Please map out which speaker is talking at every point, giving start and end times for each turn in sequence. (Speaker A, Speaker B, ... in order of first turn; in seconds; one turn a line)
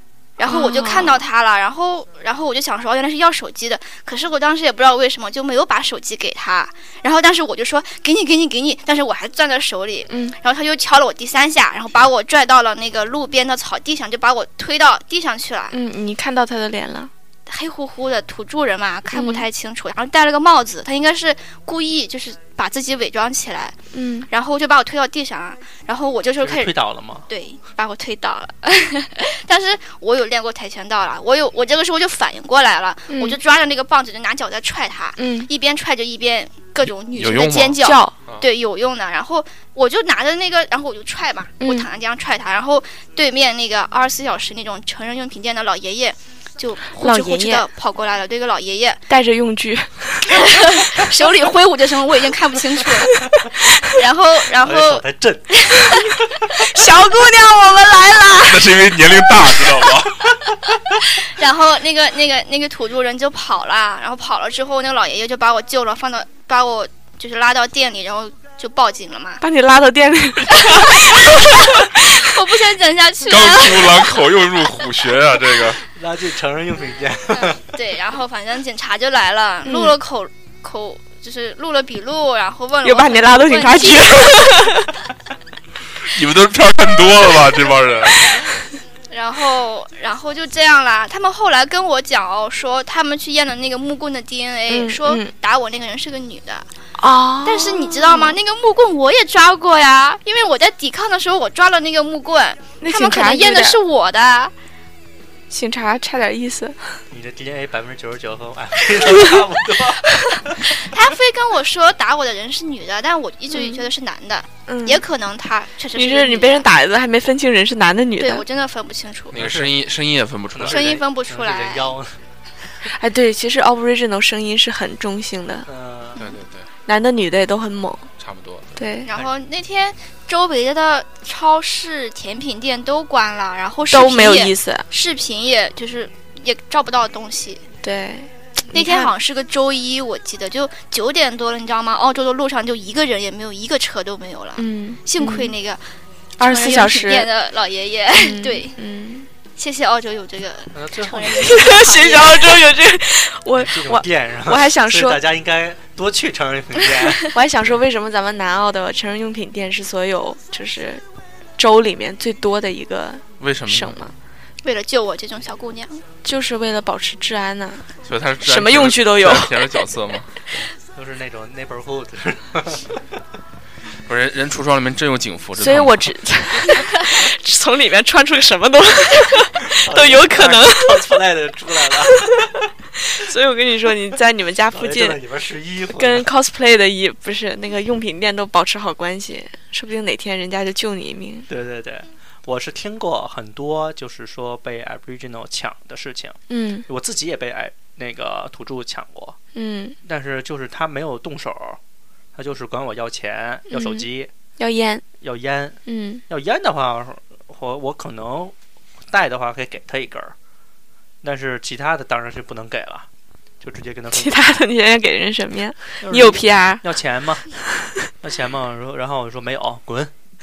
Speaker A: 0.4-15.8
Speaker B: 0.5-1.3
Speaker B: 10.1-10.4
Speaker B: 15.7-17.1
Speaker A: 17.5-26.8
Speaker B: 19.1-19.5
Speaker B: 23.9-24.3
Speaker C: 26.4-27.3
Speaker A: 27.3-49.0
Speaker B: 33.1-33.4
Speaker B: 35.2-35.5
Speaker D: 36.8-38.5
Speaker B: 37.8-38.1
Speaker B: 41.6-41.9
Speaker B: 46.9-47.7
Speaker B: 49.1-50.9
Speaker A: 50.3-53.2
Speaker A: 53.8-56.6
Speaker C: 54.6-55.9
Speaker B: 56.6-58.6
Speaker D: 58.4-60.8
Speaker A: 61.1-69.4
Speaker B: 69.4-72.3
Speaker A: 70.5-74.2
Speaker D: 73.3-75.8
Speaker C: 76.0-77.7
Speaker A: 77.4-84.6
Speaker B: 79.6-80.0
Speaker B: 82.8-84.9
Speaker D: 86.0-88.6
Speaker A: 89.1-96.7
Speaker B: 94.7-95.3
Speaker B: 97.0-98.4
Speaker A: 97.4-104.5
Speaker B: 102.8-103.8
Speaker B: 105.5-107.0
Speaker C: 107.1-110.7
Speaker A: 110.5-116.7
Speaker B: 113.5-113.9
Speaker B: 114.7-115.0
Speaker B: 115.9-118.5
Speaker A: 118.2-119.4
Speaker D: 119.3-120.9
Speaker C: 119.3-119.7
Speaker C: 120.5-122.2
Speaker A: 120.6-122.0
Speaker B: 122.8-125.7
Speaker C: 125.7-126.2
Speaker D: 126.2-126.7
Speaker B: 126.9-128.1
Speaker D: 128.2-128.8
Speaker B: 128.8-129.1
Speaker A: 129.1-137.7
Speaker B: 133.9-134.9
Speaker B: 137.8-139.1
Speaker A: 138.7-148.8
Speaker B: 144.6-145.6
Speaker B: 146.4-147.3
Speaker B: 148.1-149.3
Speaker A: 149.6-152.6
Speaker C: 150.7-151.8
Speaker B: 151.4-155.2
Speaker C: 153.6-157.3
Speaker B: 157.3-161.0
Speaker B: 161.6-164.1
Speaker D: 163.4-164.0
Speaker A: 164.6-166.0
Speaker B: 166.2-167.9
Speaker D: 168.1-170.7
Speaker B: 168.4-169.8
Speaker C: 170.9-173.0
Speaker D: 174.1-176.1
Speaker B: 175.6-181.1
Speaker C: 179.7-182.6
Speaker B: 182.1-185.2
Speaker C: 184.7-186.3
Speaker B: 185.9-191.5
Speaker C: 191.5-199.4
Speaker B: 196.5-196.9
Speaker B: 199.6-200.0
Speaker C: 200.0-201.8
Speaker C: 202.3-204.3
Speaker B: 203.7-204.1
Speaker B: 204.6-205.0
Speaker C: 205.2-208.5
Speaker B: 205.9-206.2
Speaker C: 209.1-210.3
Speaker C: 211.2-213.1
Speaker C: 213.6-214.6
Speaker B: 214.1-216.8
Speaker C: 216.0-217.5
Speaker C: 218.2-220.1